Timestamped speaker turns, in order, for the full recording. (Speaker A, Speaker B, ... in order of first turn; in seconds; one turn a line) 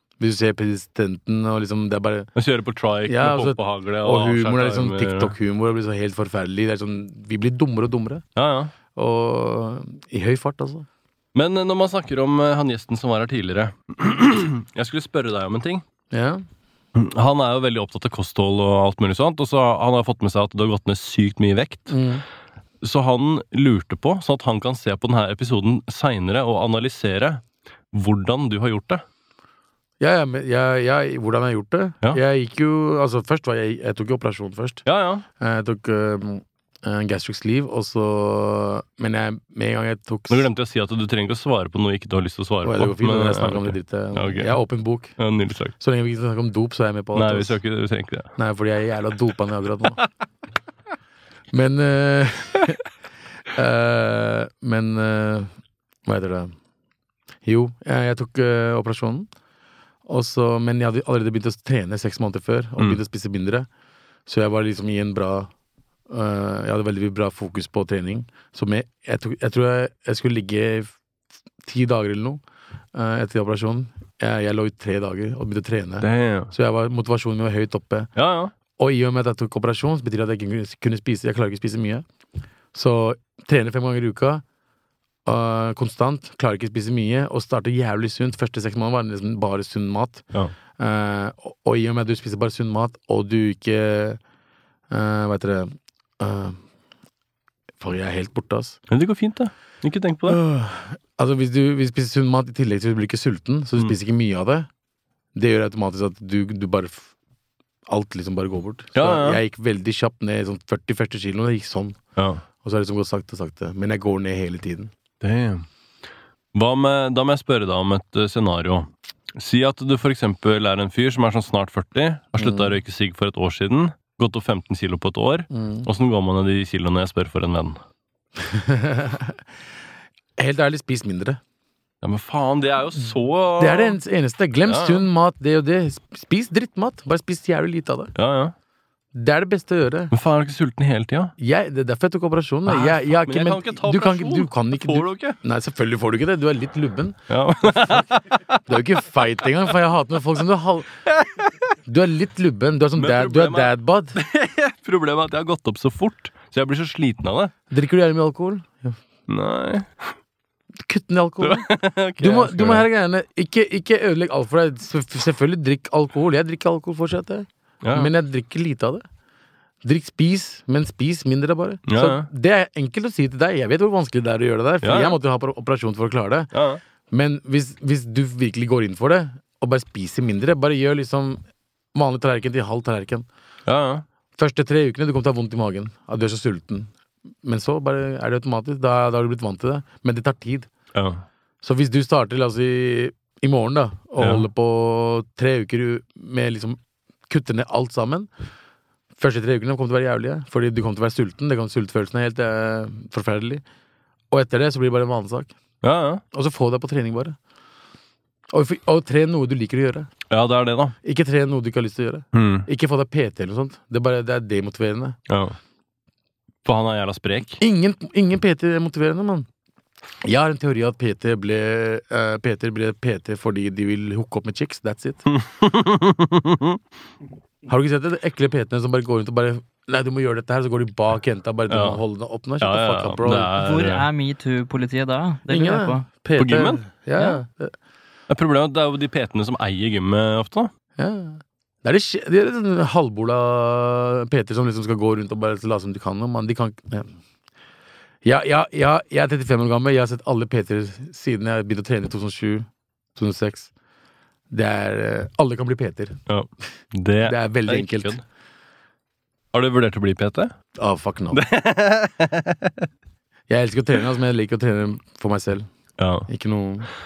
Speaker A: 0.2-2.3
Speaker B: 2.4-5.3
Speaker A: 3.1-8.2
Speaker B: 8.4-8.7
Speaker A: 8.9-10.9
Speaker B: 11.3-15.8
Speaker A: 16.1-16.4
Speaker B: 16.9-22.0
Speaker A: 21.9-22.2
Speaker B: 22.8-29.0
Speaker A: 30.0-34.9
Speaker B: 34.9-35.2
Speaker A: 35.4-40.5
Speaker B: 40.3-44.6
Speaker A: 42.6-45.2
Speaker B: 45.2-45.8
Speaker A: 45.8-47.6
Speaker B: 47.1-48.3
Speaker A: 48.4-50.0
Speaker A: 51.5-52.8
Speaker A: 53.5-55.5
Speaker A: 56.0-56.5
Speaker A: 57.4-59.3
Speaker A: 60.1-63.7
Speaker A: 64.3-65.5
Speaker A: 66.1-71.0
Speaker A: 71.6-72.4
Speaker A: 72.9-78.1
Speaker B: 76.0-76.5
Speaker B: 78.2-78.5
Speaker A: 78.8-82.0
Speaker A: 82.7-84.4
Speaker A: 85.3-90.2
Speaker A: 90.8-94.2
Speaker A: 94.9-96.6
Speaker A: 97.8-98.8
Speaker B: 98.9-100.4
Speaker A: 100.3-104.7
Speaker A: 105.3-107.1
Speaker A: 107.9-112.0
Speaker B: 109.0-109.4
Speaker B: 112.2-112.4
Speaker A: 112.6-114.9
Speaker B: 115.2-115.7
Speaker B: 116.5-127.8
Speaker A: 122.4-122.7
Speaker A: 125.5-125.9
Speaker A: 128.4-129.4
Speaker A: 130.4-131.4
Speaker B: 132.0-134.0
Speaker A: 133.6-138.1
Speaker B: 134.7-135.1
Speaker B: 138.2-138.5
Speaker A: 139.1-140.1
Speaker B: 140.1-141.3
Speaker A: 141.4-148.1
Speaker B: 142.7-145.4
Speaker B: 147.3-148.8
Speaker A: 148.7-151.0
Speaker B: 151.1-151.6
Speaker A: 151.9-154.2
Speaker B: 153.0-157.5
Speaker A: 157.7-159.0
Speaker B: 159.3-160.2
Speaker A: 160.8-169.0
Speaker B: 161.4-162.9
Speaker B: 167.8-168.1
Speaker A: 169.8-176.5
Speaker B: 171.9-172.3
Speaker B: 174.8-175.2
Speaker B: 176.5-176.8
Speaker A: 177.1-181.4
Speaker A: 181.9-183.3
Speaker B: 183.7-184.1
Speaker A: 184.4-186.9
Speaker A: 187.4-190.7
Speaker B: 190.9-191.2
Speaker A: 191.6-198.3
Speaker B: 194.2-194.5
Speaker A: 199.2-203.6
Speaker A: 204.3-205.5
Speaker B: 205.8-206.2
Speaker A: 206.3-207.4
Speaker A: 208.5-210.1
Speaker B: 210.3-210.9
Speaker A: 211.0-215.2
Speaker B: 212.3-212.7
Speaker B: 215.3-215.6
Speaker B: 216.6-217.6
Speaker A: 217.6-219.5
Speaker A: 220.2-225.3
Speaker B: 225.3-226.8
Speaker A: 227.7-233.6
Speaker B: 231.7-232.0
Speaker B: 232.6-234.1
Speaker C: 233.6-236.1
Speaker A: 235.5-237.7
Speaker B: 236.4-236.8
Speaker B: 238.3-240.7
Speaker A: 241.0-247.2
Speaker A: 248.2-253.7
Speaker A: 254.5-256.2
Speaker B: 256.3-258.2
Speaker A: 257.2-258.2
Speaker B: 259.5-260.5
Speaker A: 260.8-261.4
Speaker B: 261.3-262.9
Speaker A: 263.5-265.7
Speaker B: 266.0-266.3
Speaker A: 266.3-266.9